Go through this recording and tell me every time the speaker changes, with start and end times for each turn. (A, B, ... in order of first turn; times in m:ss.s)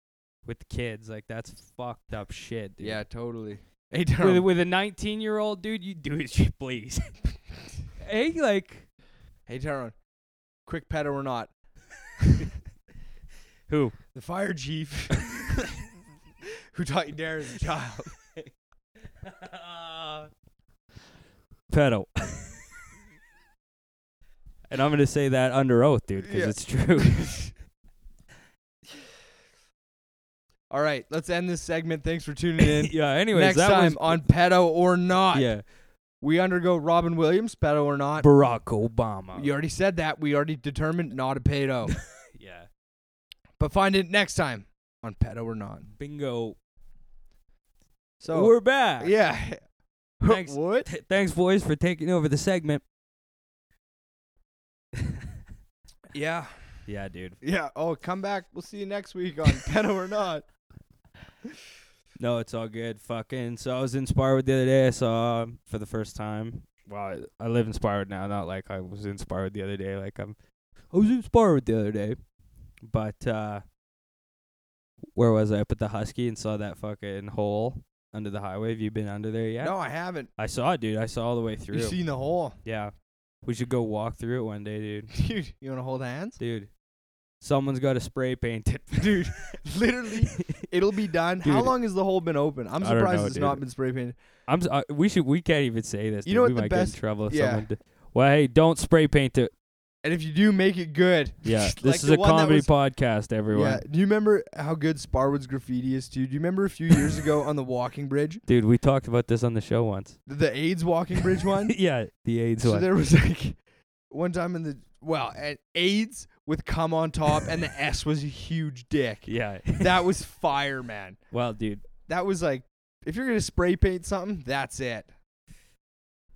0:00.4-0:03.0 A
0:02.8-0:04.4 B
0:04.2-0:07.2 A
0:08.0-0:08.9 A
0:09.5-0:09.9 B
0:10.6-0:11.5 B
0:13.7-0:14.0 A
0:14.1-0:15.5 B
0:16.7-0:18.2 B
0:19.2-0:20.3 A
0:21.7-0:22.6 A
0:24.7-0:27.4 A
0:26.2-0:27.5 B
0:30.7-0:35.5 B
0:32.8-0:34.3 A
0:35.3-0:35.6 A
0:36.2-0:38.3 B
0:38.2-0:39.5 A
0:39.4-0:41.9 B
0:41.9-0:42.7 A
0:43.6-0:45.9 B
0:45.9-0:46.6 A
0:48.2-0:49.6 B
0:48.2-0:49.1 A
0:50.2-0:50.9 B
0:50.2-0:52.8 A
0:56.1-0:56.8 B
0:56.9-0:57.4 A
0:57.4-1:00.4 B
1:02.2-1:10.4 A
1:10.9-1:12.2 A
1:12.8-1:13.6 A
1:15.2-1:19.8 A
1:19.6-1:20.3 B
1:20.4-1:22.0 A
1:21.7-1:22.6 B
1:22.6-1:22.9 A
1:23.4-1:25.1 A
1:25.1-1:26.4 B
1:26.4-1:26.7 A
1:27.4-1:29.6 A
1:28.9-1:34.2 B
1:30.3-1:30.6 A
1:31.4-1:31.8 A
1:32.8-1:33.6 A
1:34.5-1:39.5 A
1:36.2-1:37.7 B
1:40.0-1:42.7 B
1:41.4-1:43.8 A
1:43.5-1:48.4 B
1:48.5-1:50.2 A
1:50.3-1:51.8 B
1:51.7-1:52.9 A
1:52.6-1:53.6 B
1:54.1-2:01.2 B
1:59.2-2:00.1 A
2:01.3-2:01.9 A
2:02.1-2:05.1 B